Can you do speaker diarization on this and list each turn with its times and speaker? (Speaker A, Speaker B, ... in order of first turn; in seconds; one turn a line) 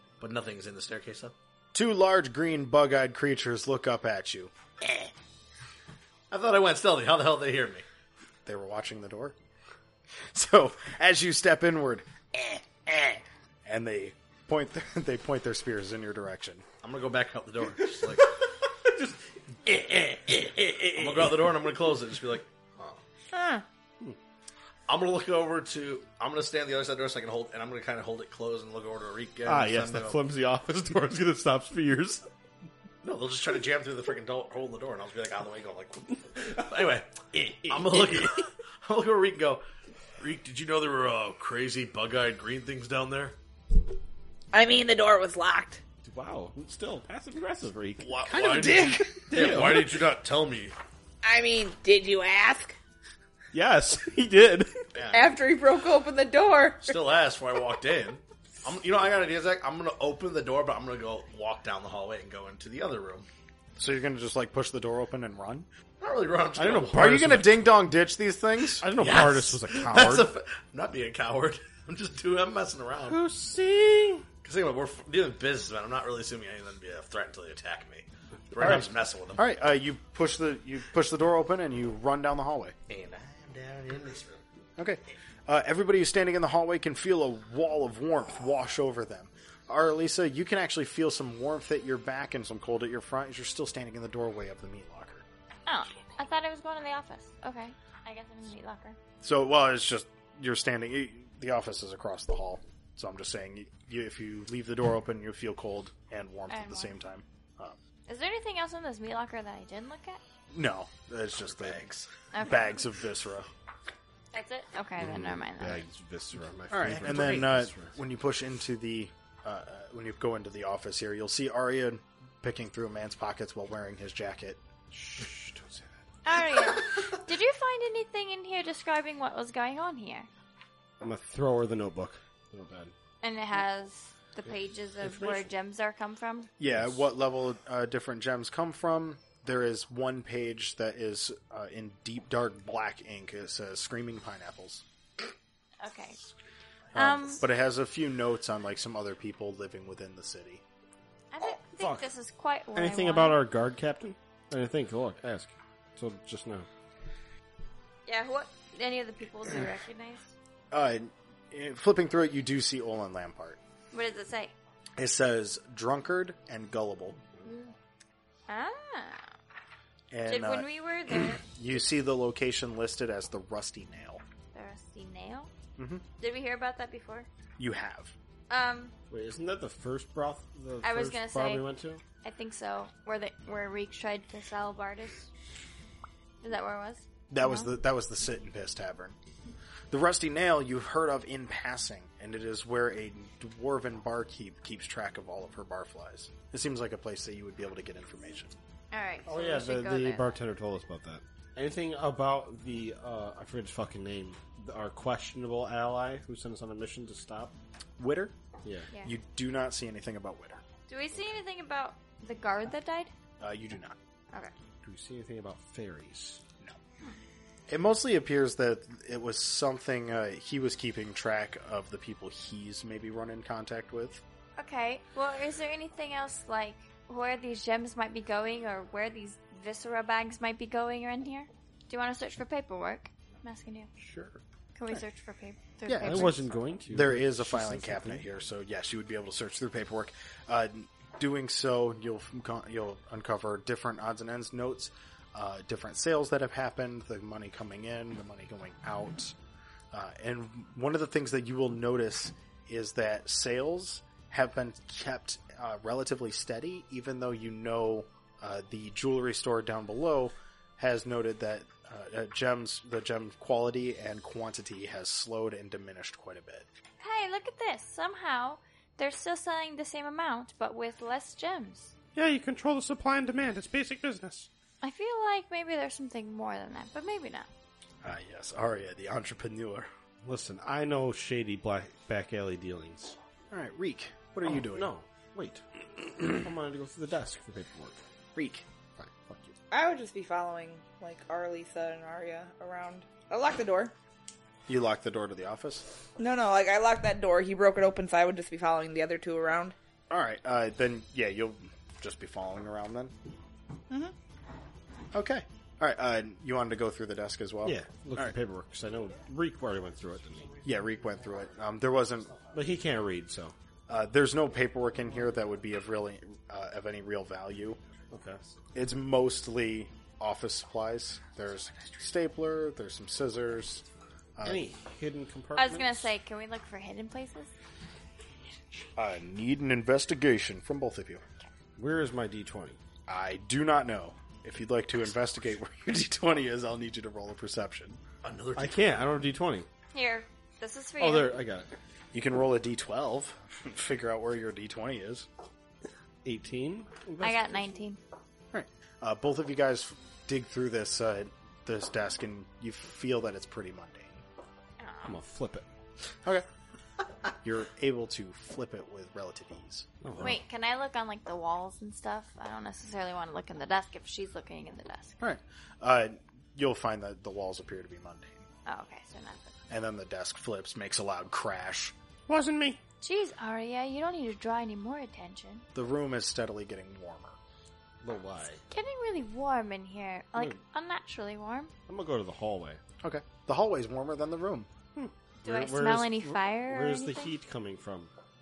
Speaker A: 0.2-1.3
Speaker B: 1.7-4.5
Speaker A: 6.3-7.9
Speaker B: 8.4-9.3
Speaker B: 10.3-16.6
Speaker A: 16.8-18.4
Speaker C: 19.7-21.2
Speaker A: 20.9-23.0
Speaker D: 23.3-23.6
Speaker A: 24.9-30.2
Speaker C: 29.5-32.2
Speaker A: 33.0-39.6
Speaker C: 37.3-38.3
Speaker A: 40.2-43.4
Speaker D: 44.5-45.8
Speaker C: 46.0-50.0
Speaker A: 48.0-50.8
Speaker D: 48.3-49.0
Speaker D: 51.2-52.8
Speaker C: 53.5-54.8
Speaker A: 54.9-55.4
Speaker D: 55.1-57.0
Speaker A: 56.8-63.3
Speaker B: 63.8-65.7
Speaker A: 66.0-67.2
Speaker C: 66.6-67.6
Speaker B: 66.8-68.9
Speaker C: 68.8-70.3
Speaker A: 69.0-73.2
Speaker E: 73.1-74.2
Speaker A: 74.4-79.5
Speaker B: 79.4-82.8
Speaker A: 82.9-84.4
Speaker B: 84.8-95.2
Speaker F: 95.7-99.0
Speaker B: 99.2-107.8
Speaker F: 106.5-106.9
Speaker F: 108.1-110.2
Speaker B: 110.5-113.5
Speaker A: 111.5-112.1
Speaker F: 112.3-112.8
Speaker F: 114.3-115.9
Speaker C: 115.0-117.9
Speaker B: 116.7-124.6
Speaker A: 117.0-117.4
Speaker C: 124.9-125.9
Speaker F: 126.2-130.3
Speaker C: 131.0-132.9
Speaker F: 133.2-136.5
Speaker C: 135.0-135.5
Speaker B: 136.6-144.8
Speaker F: 145.8-146.2
Speaker F: 146.9-147.4
Speaker B: 146.9-150.6
Speaker F: 151.3-153.4
Speaker C: 151.8-152.1
Speaker C: 152.8-156.7
Speaker F: 158.1-160.3
Speaker B: 160.7-163.6
Speaker F: 163.9-164.5
Speaker B: 165.0-167.2
Speaker F: 167.4-167.7
Speaker F: 168.5-169.2
Speaker B: 170.1-170.7
Speaker F: 170.3-171.5
Speaker B: 171.3-174.2
Speaker F: 174.5-175.5
Speaker B: 175.8-176.0
Speaker F: 176.2-177.3
Speaker B: 177.6-178.1
Speaker F: 178.5-178.9
Speaker C: 179.1-182.0
Speaker F: 180.8-181.7
Speaker F: 182.2-185.3
Speaker F: 186.4-187.7
Speaker B: 187.3-189.2
Speaker B: 189.9-198.5
Speaker F: 198.9-200.3
Speaker C: 199.2-207.5
Speaker B: 208.0-208.3
Speaker C: 208.6-208.9
Speaker B: 209.0-210.6
Speaker F: 210.9-213.1
Speaker B: 213.4-214.0
Speaker C: 214.8-216.4
Speaker B: 217.7-224.2
Speaker F: 224.6-233.9
Speaker C: 234.0-234.4
Speaker F: 234.8-236.5
Speaker B: 235.8-236.3
Speaker C: 236.0-238.2
Speaker B: 236.9-249.3
Speaker B: 249.9-266.7
Speaker F: 267.0-271.9
Speaker E: 272.1-274.5
Speaker F: 274.8-277.5
Speaker B: 278.0-279.9
Speaker C: 280.2-283.2
Speaker B: 283.5-284.9
Speaker C: 284.5-285.6
Speaker C: 286.2-288.0
Speaker B: 288.4-288.7
Speaker C: 289.0-289.6
Speaker D: 289.7-293.9
Speaker B: 294.7-295.8
Speaker D: 296.2-299.8
Speaker B: 300.1-303.1
Speaker B: 305.1-308.4
Speaker C: 307.6-310.6
Speaker B: 310.6-312.4
Speaker C: 312.5-313.6
Speaker B: 313.9-317.8
Speaker C: 318.1-318.4
Speaker B: 318.7-323.9
Speaker B: 324.4-324.6
Speaker C: 324.4-326.1
Speaker F: 325.6-327.5
Speaker B: 329.0-331.2
Speaker C: 331.8-332.8
Speaker B: 333.1-338.0
Speaker A: 338.2-339.0
Speaker C: 338.6-339.7
Speaker F: 339.9-341.4
Speaker C: 341.0-341.7
Speaker B: 342.1-345.3
Speaker C: 346.2-347.8
Speaker F: 347.2-348.0
Speaker B: 348.5-354.2
Speaker F: 354.8-355.2
Speaker C: 355.1-355.6
Speaker B: 357.4-360.3
Speaker C: 360.0-360.4
Speaker F: 360.2-365.2
Speaker B: 365.2-368.5
Speaker F: 368.7-369.6
Speaker B: 369.7-371.9
Speaker E: 372.3-372.8
Speaker F: 373.0-375.7
Speaker B: 375.8-377.4
Speaker C: 378.0-378.6
Speaker F: 378.7-381.7
Speaker C: 381.9-382.8
Speaker B: 383.0-384.7
Speaker C: 385.0-388.1
Speaker F: 385.4-387.4